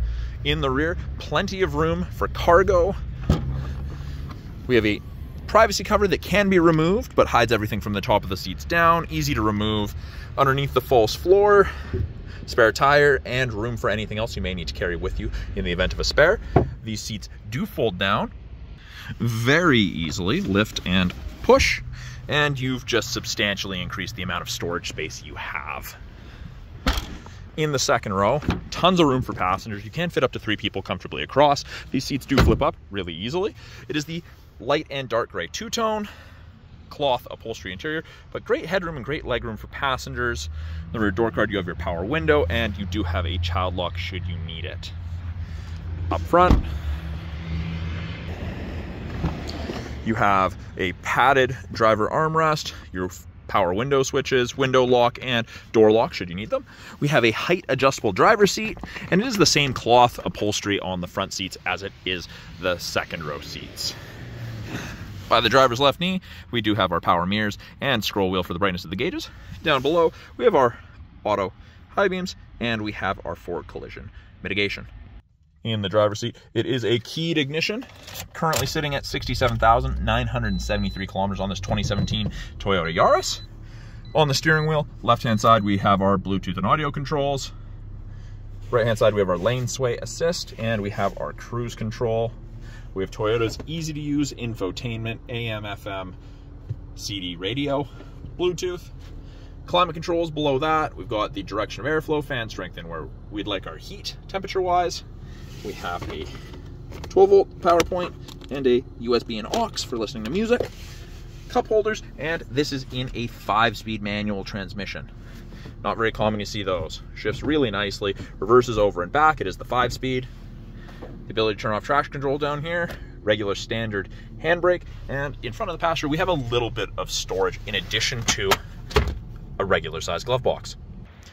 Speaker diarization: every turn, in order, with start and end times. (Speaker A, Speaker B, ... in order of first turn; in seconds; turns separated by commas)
Speaker A: 0.4-3.0, Speaker A: 4.7-11.7, Speaker A: 12.4-18.3, Speaker A: 19.2-26.0, Speaker A: 27.6-36.1, Speaker A: 36.9-44.9, Speaker A: 46.1-46.7, Speaker A: 50.0-64.0, Speaker A: 65.3-74.9, Speaker A: 75.6-83.4, Speaker A: 84.1-87.5, Speaker A: 88.7-92.4, Speaker A: 92.9-96.2, Speaker A: 97.0-98.9, Speaker A: 99.7-105.0, Speaker A: 105.6-106.3, Speaker A: 107.1-110.7, Speaker A: 111.5-115.1, Speaker A: 115.8-120.3, Speaker A: 121.3-128.6, Speaker A: 129.6-130.8